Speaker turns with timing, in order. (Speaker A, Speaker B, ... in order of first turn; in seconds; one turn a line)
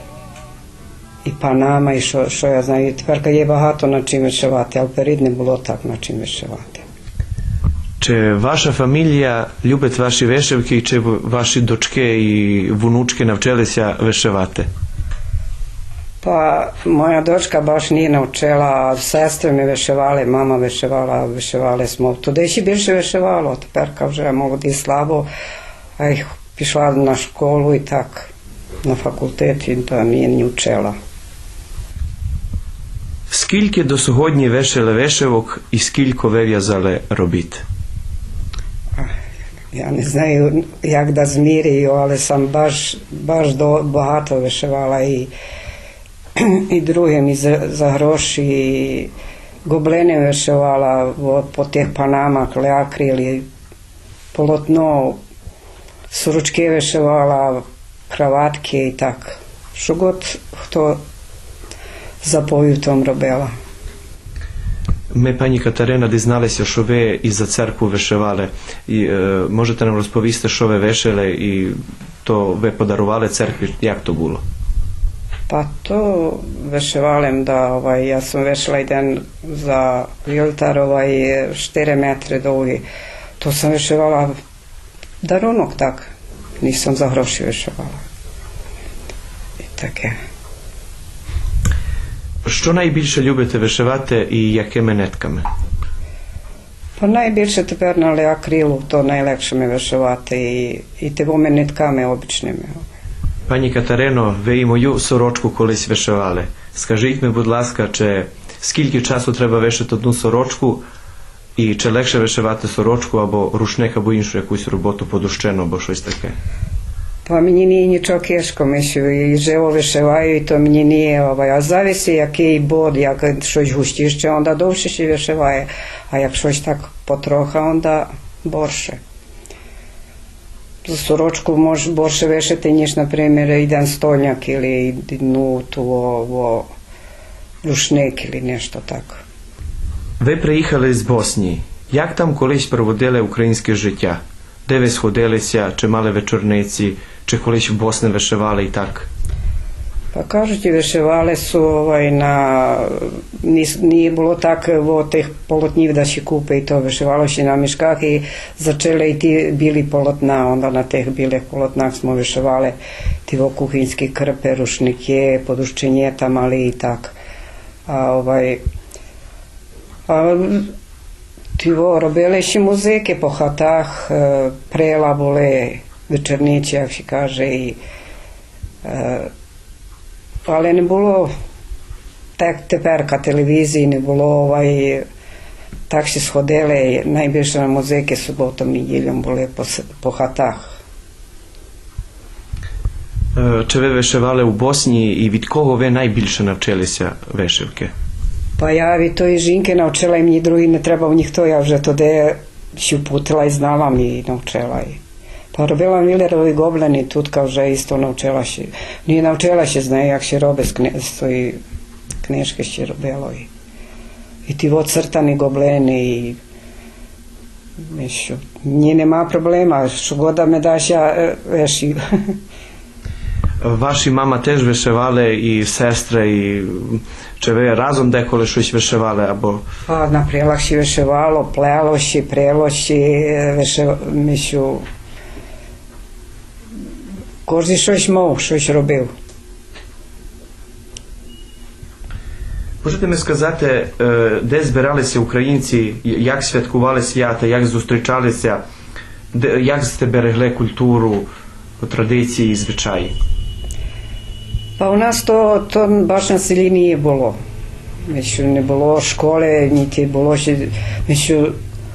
Speaker A: 1.2-6.8
Speaker B: 8.0-14.7
Speaker A: 16.2-25.3
Speaker A: 26.0-28.3
Speaker A: 28.8-30.9
Speaker B: 33.3-37.6
Speaker A: 39.7-45.3
Speaker A: 46.4-49.1
Speaker A: 49.6-53.5
Speaker A: 54.3-55.2
Speaker A: 56.1-61.0
Speaker A: 62.2-63.5
Speaker B: 65.1-74.4
Speaker A: 75.5-82.8
Speaker A: 83.4-84.3
Speaker A: 85.2-88.0
Speaker A: 89.6-90.2
Speaker B: 92.5-95.4
Speaker A: 97.0-102.8
Speaker B: 103.5-110.8
Speaker B: 111.6-116.3
Speaker A: 117.2-129.0
Speaker A: 130.9-136.7
Speaker A: 137.6-139.2
Speaker B: 140.2-149.1
Speaker A: 150.1-162.8
Speaker A: 163.3-167.2
Speaker A: 167.9-168.6
Speaker A: 170.1-170.8
Speaker A: 171.6-177.8
Speaker A: 178.8-179.3
Speaker A: 180.5-181.3
Speaker A: 182.4-185.1
Speaker A: 185.9-190.7
Speaker B: 193.3-197.9
Speaker A: 198.6-205.0
Speaker A: 205.5-211.6
Speaker A: 212.2-213.5
Speaker A: 214.5-216.4
Speaker A: 217.8-222.4
Speaker B: 223.6-229.6
Speaker A: 229.9-234.8
Speaker A: 237.5-239.1
Speaker B: 242.8-248.6
Speaker B: 249.3-251.3
Speaker B: 251.8-253.1
Speaker A: 254.8-257.4
Speaker A: 258.1-261.6